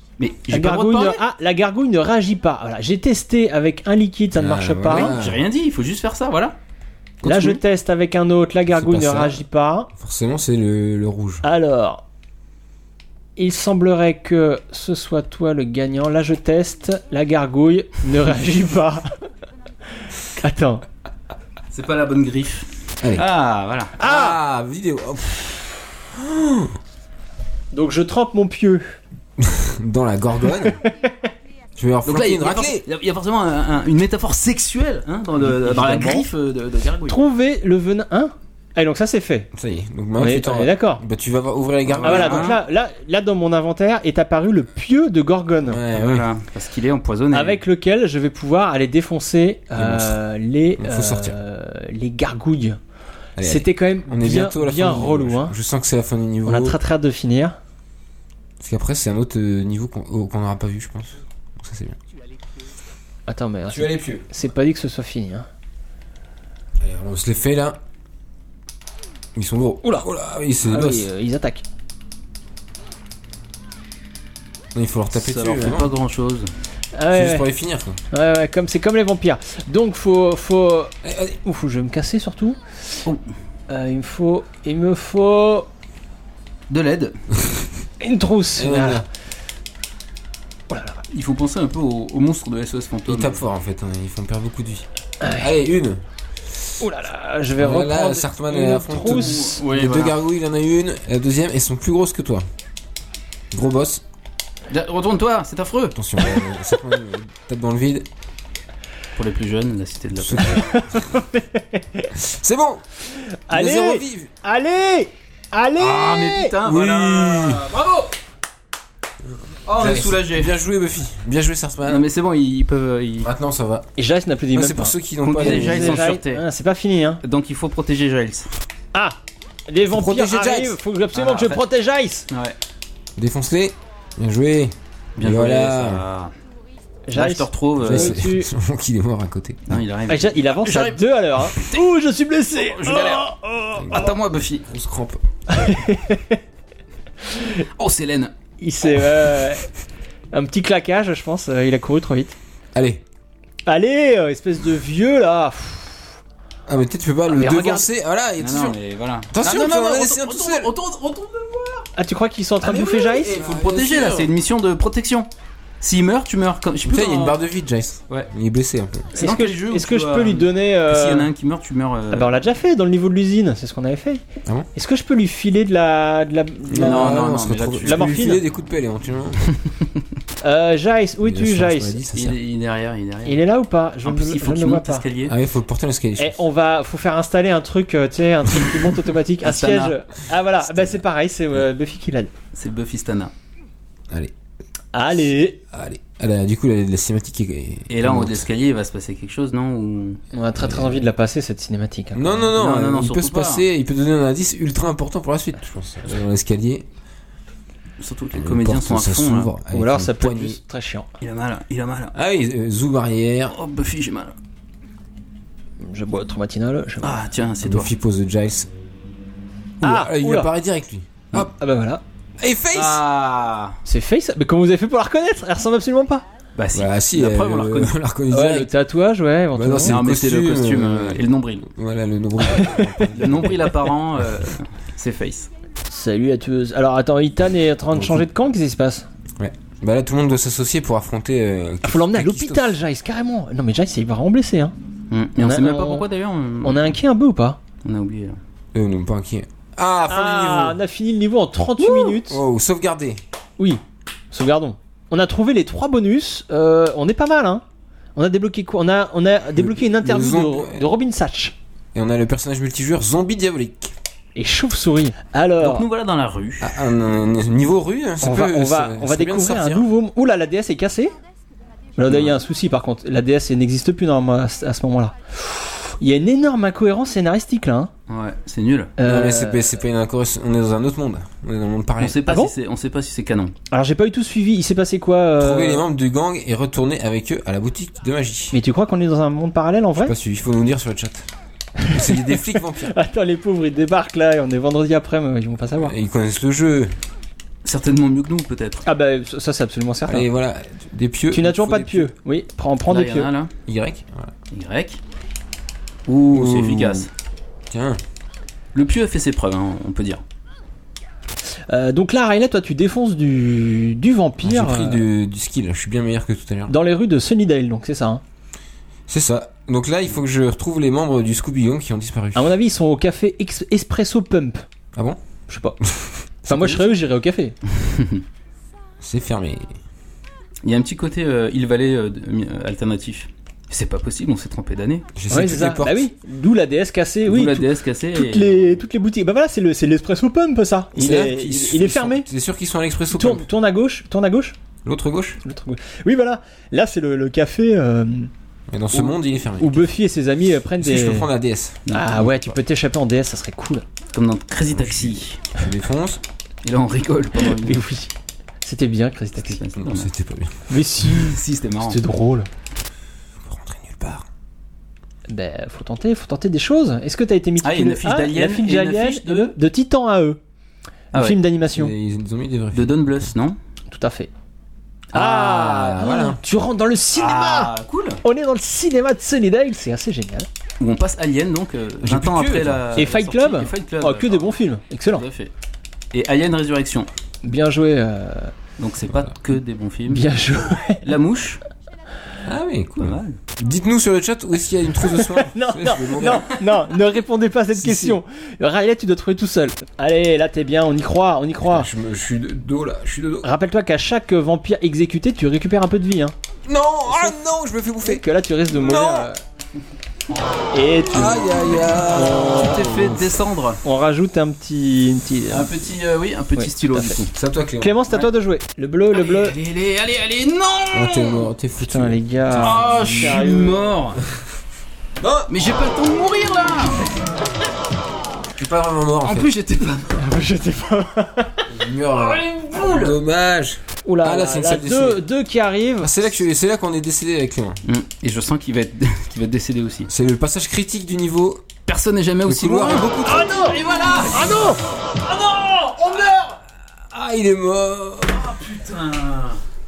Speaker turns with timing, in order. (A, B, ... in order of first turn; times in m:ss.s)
0:00.2-0:01.2 A
0:00.5-0:05.2 B
0:04.3-0:05.4 C
0:04.9-0:06.6 A
0:07.2-0:07.6 C
0:07.2-0:09.9 B
0:08.7-0:09.4 C
0:10.0-0:11.4 C
0:11.4-0:12.0 B
0:13.4-0:19.2 B
0:20.4-0:20.8 B
0:21.7-0:24.0 A
0:23.0-0:23.3 C
0:24.0-0:24.4 B
0:24.0-0:26.7 C
0:27.7-0:29.0 B
0:29.4-0:30.8 C
0:30.6-0:31.3 B
0:31.8-0:32.8 C
0:32.0-0:37.2 A
0:35.5-0:36.3 B
0:37.0-0:39.5 B
0:39.5-0:42.6 C
0:40.2-0:41.0 B
0:41.9-0:42.6 A
0:42.0-0:45.8 B
0:45.7-0:46.3 C
0:46.0-0:47.6 A
0:47.3-0:52.8 B
0:49.8-0:50.2 C
0:50.8-0:51.4 C
0:53.4-0:56.8 C
0:53.4-0:55.6 B
0:56.5-0:57.6 B
0:58.6-1:02.0 C
1:03.3-1:05.5 B
1:03.7-1:04.3 C
1:06.8-1:07.8 C
1:09.4-1:11.1 C
1:10.6-1:11.6 B
1:14.8-1:15.9 C
1:15.1-1:16.5 A
1:16.9-1:17.5 B
1:17.1-1:18.0 C
1:18.1-1:23.0 B
1:21.0-1:21.4 C
1:23.7-1:25.7 B
1:26.7-1:27.2 A
1:28.0-1:29.0 B
1:28.6-1:29.0 C
1:30.7-1:31.0 B
1:31.1-1:33.4 A
1:33.1-1:36.0 C
1:35.2-1:35.5 B
1:36.8-1:39.6 B
1:37.6-1:42.5 C
1:39.0-1:40.2 A
1:43.5-1:44.0 C
1:44.7-1:46.0 A
1:45.9-1:48.1 C
1:49.2-1:50.6 A
1:50.2-1:51.1 C
1:50.4-1:52.1 B
1:52.1-1:52.8 C
1:53.1-1:56.5 B
1:53.5-1:54.3 C
1:55.8-1:58.1 A
1:56.6-1:57.7 C
1:59.7-2:00.5 A
1:59.8-2:02.1 C
2:01.9-2:03.3 A
2:03.2-2:03.9 C
2:04.0-2:07.2 B
2:04.5-2:06.1 C
2:05.2-2:06.4 A
2:07.2-2:08.5 A
2:08.9-2:12.3 B
2:09.9-2:10.8 C
2:11.1-2:11.6 A
2:12.3-2:12.6 A
2:13.2-2:16.0 C
2:15.2-2:16.3 A
2:17.1-2:18.5 B
2:17.2-2:18.2 A
2:17.8-2:19.8 C
2:19.7-2:21.8 A
2:20.1-2:24.1 B
2:22.7-2:23.3 A
2:23.8-2:25.2 C
2:23.8-2:24.7 A
2:25.5-2:26.4 B
2:27.3-2:27.6 B
2:27.6-2:28.3 A
2:28.6-2:29.7 B
2:30.3-2:32.4 B
2:32.8-2:33.0 C
2:33.7-2:36.1 B
2:36.7-2:38.8 C
2:37.3-2:37.9 B
2:38.4-2:41.9 A
2:39.3-2:40.7 C
2:42.0-2:43.3 B
2:42.6-2:44.3 C
2:43.3-2:45.3 A
2:45.8-2:47.4 A
2:46.8-2:49.1 C
2:49.1-2:52.4 A
2:49.2-2:51.3 B
2:52.1-2:54.2 B
2:54.8-2:57.3 B
2:56.7-2:59.4 C
2:56.8-2:58.3 A
2:57.8-2:58.4 B
3:00.4-3:02.0 B
3:01.2-3:02.4 C
3:02.1-3:03.4 A
3:03.3-3:05.1 B
3:04.0-3:05.4 A
3:05.2-3:06.4 C
3:06.2-3:12.3 B
3:09.4-3:09.9 A
3:12.5-3:13.3 A
3:14.9-3:15.6 B
3:15.7-3:18.5 C
3:17.9-3:20.2 A
3:20.3-3:22.5 B
3:20.6-3:21.0 C
3:22.1-3:26.8 C
3:22.5-3:23.6 A
3:28.0-3:29.5 A
3:28.3-3:30.6 C
3:29.7-3:31.1 B
3:31.2-3:32.1 A
3:32.1-3:33.6 C
3:33.5-3:34.4 A
3:35.8-3:37.2 B
3:37.0-3:37.9 A
3:37.6-3:38.7 C
3:39.8-3:41.5 C
3:39.8-3:40.5 B
3:41.3-3:42.0 B
3:42.4-3:43.0 C
3:42.7-3:43.8 A
3:43.8-3:46.2 B
3:46.6-3:48.0 A
3:46.7-3:48.7 C
3:48.3-3:50.0 B
3:49.6-3:53.9 C
3:49.8-3:51.7 A
3:53.1-3:55.5 A
3:55.9-3:59.1 B
3:57.9-3:58.3 C
3:59.4-4:02.8 C
4:01.8-4:04.7 B
4:05.1-4:06.9 A
4:05.4-4:06.1 B
4:06.6-4:07.6 B
4:07.8-4:08.4 A
4:08.7-4:10.8 C
4:10.1-4:12.4 B
4:11.8-4:13.2 C
4:13.6-4:17.6 B
4:18.2-4:21.6 B
4:19.6-4:20.9 C
4:22.0-4:23.9 C
4:24.4-4:25.9 B
4:25.6-4:26.7 A
4:26.6-4:29.9 C
4:28.2-4:31.2 B
4:32.0-4:37.9 B
4:32.1-4:32.4 C
4:38.1-4:38.9 A
4:39.0-4:39.8 B
4:39.0-4:42.2 C
4:42.0-4:43.5 A
4:42.3-4:42.5 B
4:43.7-4:45.8 B
4:45.4-4:48.6 C
4:48.5-4:50.2 B
4:50.0-4:51.3 C
4:51.8-4:55.9 B
4:51.9-4:52.9 C
4:55.8-4:56.9 C
4:57.6-4:58.8 A
4:58.8-5:00.3 B
5:00.1-5:02.1 C
5:01.3-5:03.3 B
5:02.9-5:03.5 A
5:03.7-5:04.3 C
5:04.5-5:05.0 A
5:06.1-5:07.1 A
5:06.3-5:07.1 C
5:07.7-5:08.0 C
5:08.7-5:10.2 A
5:11.7-5:15.0 B
5:14.4-5:16.8 C
5:16.7-5:18.2 B
5:19.1-5:22.5 C
5:22.4-5:24.6 B
5:25.5-5:25.8 B
5:25.8-5:26.8 C
5:26.5-5:27.6 B
5:27.9-5:28.2 A
5:29.0-5:29.7 C
5:30.6-5:35.1 A
5:35.2-5:36.1 C
5:35.3-5:42.3 B
5:37.3-5:38.7 A
5:41.0-5:43.5 C
5:43.1-5:44.6 B
5:44.8-5:45.4 C
5:45.4-5:48.3 B
5:48.7-5:49.9 C
5:49.6-5:51.3 B
5:50.8-5:51.9 C
5:51.9-5:52.2 A
5:51.9-5:53.8 B
5:54.1-5:55.5 A
5:54.7-5:56.2 C
5:56.6-5:57.8 A
5:57.4-5:59.6 B
5:59.4-6:00.1 A
5:59.8-6:00.7 C
6:00.7-6:02.5 B
6:01.0-6:02.0 A
6:03.4-6:04.3 C
6:05.3-6:10.4 B
6:07.6-6:09.5 A
6:11.1-6:11.4 A
6:11.1-6:11.9 B
6:11.7-6:13.1 C
6:12.7-6:13.6 A
6:13.9-6:14.3 B
6:15.1-6:16.4 C
6:15.1-6:17.7 B
6:17.2-6:18.2 A
6:18.2-6:20.5 B
6:20.8-6:24.6 A
6:22.0-6:23.0 C
6:23.0-6:25.2 B
6:25.2-6:25.5 A
6:26.1-6:27.1 A
6:27.4-6:28.5 B
6:28.8-6:30.3 A
6:30.1-6:31.1 B
6:31.0-6:31.6 A
6:32.4-6:36.6 C
6:33.0-6:33.4 A
6:35.1-6:41.9 B
6:37.7-6:38.2 C
6:41.6-6:43.5 C
6:43.4-6:46.4 B
6:46.7-6:49.3 C
6:48.0-6:49.4 B
6:50.7-6:53.1 B
6:51.1-6:53.4 C
6:52.2-6:53.8 A
6:53.8-6:55.7 B
6:55.5-6:57.3 A
6:56.6-6:57.2 B
6:57.3-6:58.0 C
6:57.8-6:59.6 B
6:59.1-7:01.5 A
7:00.9-7:02.9 C
7:01.8-7:03.9 B
7:02.6-7:04.2 A
7:05.2-7:05.5 C
7:05.5-7:07.1 A
7:08.6-7:09.5 C
7:09.2-7:10.2 A
7:10.1-7:11.7 B
7:11.7-7:15.2 C
7:12.3-7:13.1 A
7:14.0-7:16.1 B
7:16.0-7:17.8 C
7:17.9-7:20.1 A
7:20.1-7:21.6 C
7:21.9-7:23.1 A
7:22.4-7:24.4 C
7:23.2-7:26.6 B
7:23.8-7:24.5 A
7:27.1-7:28.6 C
7:28.3-7:29.6 A